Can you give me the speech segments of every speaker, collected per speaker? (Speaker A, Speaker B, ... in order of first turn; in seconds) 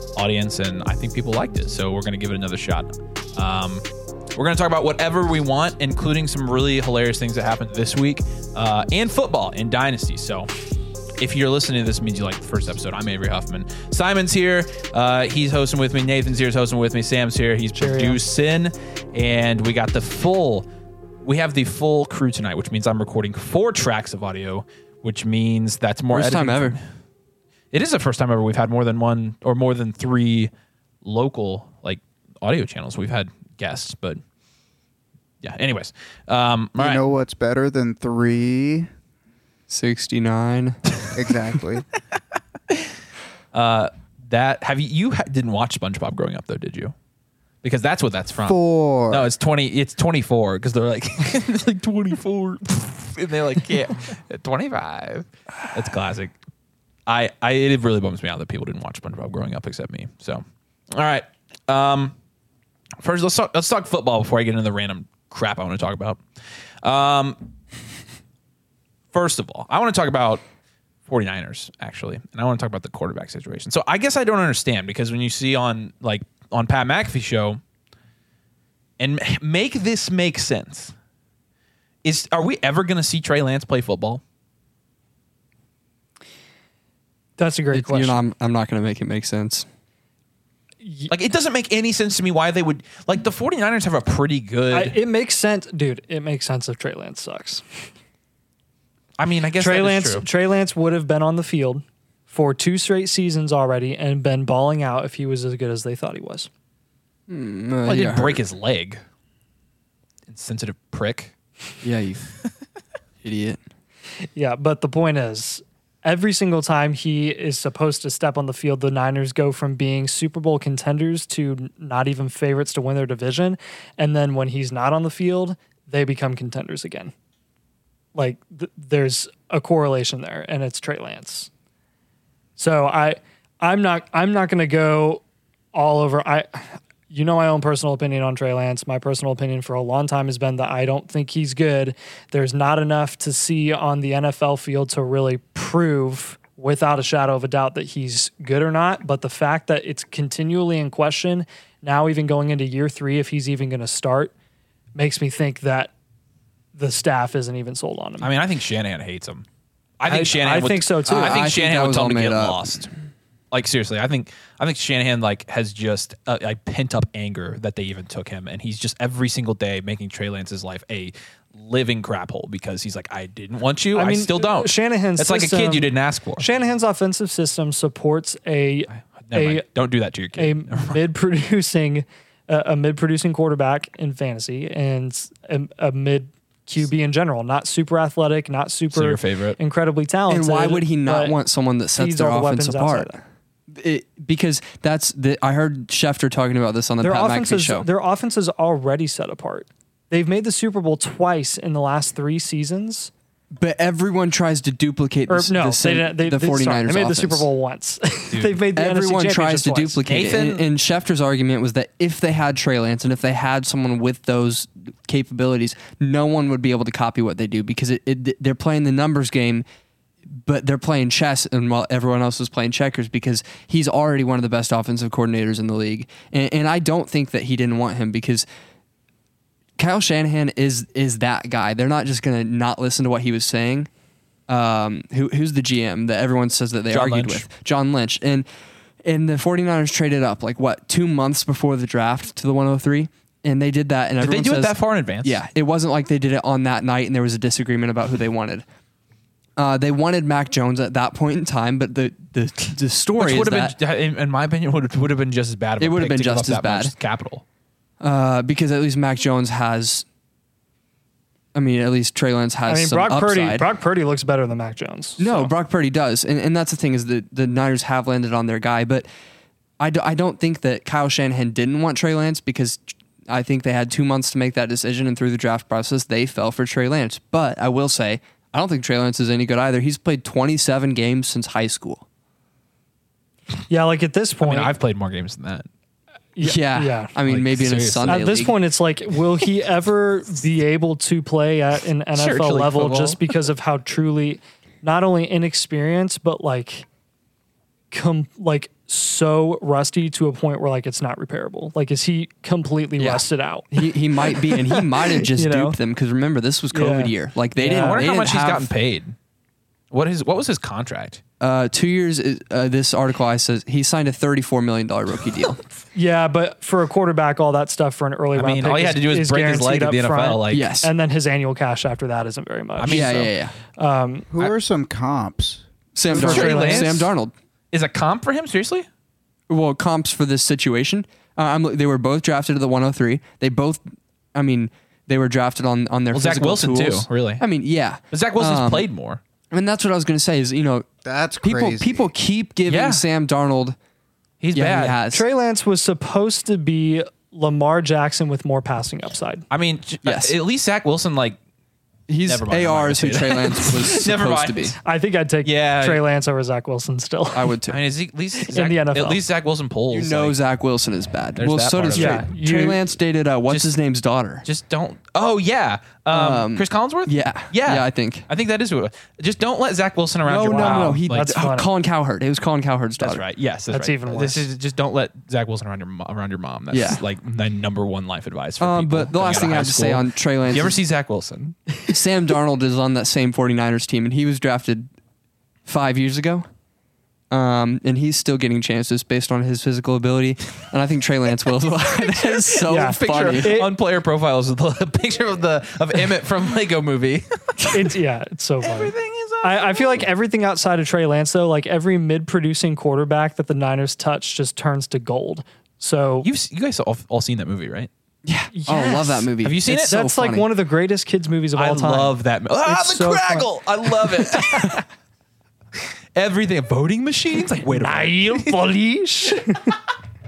Speaker A: 0.2-3.8, 4.3-10.5, 11.2-20.7, 21.2-26.8, 27.7-30.5, 31.0-34.2, 35.4-37.0, 43.5-46.9, 47.6-48.6, 49.1-56.3, 57.1-62.1, 63.0-66.2, 66.8-67.4, 69.1-70.4, 71.1-77.6, 79.0-80.9, 82.0-84.2, 91.1-95.0, 99.2-100.2, 107.9-109.0, 110.3-111.3, 158.2-159.5, 160.0-162.9, 163.5-176.4, 179.2-181.0, 188.9-189.6, 210.1-210.7, 236.9-237.4, 244.2-245.4, 253.2-257.4, 284.4-285.7, 287.2-288.3, 292.2-292.9, 307.7-309.1, 309.9-311.2, 318.4-320.7, 322.8-323.3, 326.1-327.1, 327.7-328.9, 336.1-337.4, 338.1-339.2, 342.7-343.0, 344.4-345.0, 349.5-351.4, 352.2-354.8, 355.4-356.0, 357.7-360.4, 361.4-362.3, 363.5-363.8, 364.4-371.3, 373.0-381.6, 392.1-397.9, 398.6-400.1, 406.2-407.9, 409.4-409.9, 411.6-414.8, 416.2-418.6
Speaker B: 17.8-18.2, 87.4-88.2, 90.8-91.1, 94.7-97.6, 99.6-106.5, 114.3-127.1, 128.2-131.5, 132.6-135.2, 135.7-154.3, 154.9-155.9, 156.8-158.3, 160.1-161.5, 173.9-179.7, 180.4-191.4, 191.9-193.2, 197.0-203.1, 205.3-210.0, 262.7-265.5, 283.7-284.7, 286.4-287.1, 288.1-296.9, 297.9-305.8, 306.7-308.1, 315.9-323.2, 323.8-324.3, 326.1-327.1, 345.1-349.4, 354.8-357.5, 358.5-359.2, 361.9-362.8, 370.4-371.7, 373.7-374.4, 392.7-393.7, 397.7-406.3, 408.5-409.3, 409.8-413.5, 414.0-414.8, 417.7-419.8
Speaker C: 26.1-26.8, 39.7-40.8, 87.7-89.7, 107.3-108.4, 111.8-112.3, 113.2-113.6, 161.1-162.8, 190.3-197.9, 203.6-207.5, 208.7-219.7, 220.3-228.5, 229.8-233.9, 234.5-238.5, 239.0-248.7, 249.6-253.8, 255.8-256.9, 258.0-260.1, 261.6-263.7, 265.2-269.1, 269.8-282.1, 286.4-288.6, 292.7-293.2, 303.0-308.7, 311.4-315.6, 320.5-320.9, 322.8-323.5, 325.9-327.3, 329.5-333.8, 334.3-338.9, 339.5-340.9, 341.4-343.8, 344.5-345.3, 350.0-350.4, 352.1-354.8, 357.3-357.8, 359.9-364.4, 366.1-368.2, 370.2-373.2, 376.7-377.0, 378.6-380.8, 381.9-384.9, 385.7-386.5, 387.3-393.6, 408.2-410.5
Speaker D: 36.8-38.9, 41.1-41.9, 48.5-49.3, 324.3-325.6, 341.1-342.1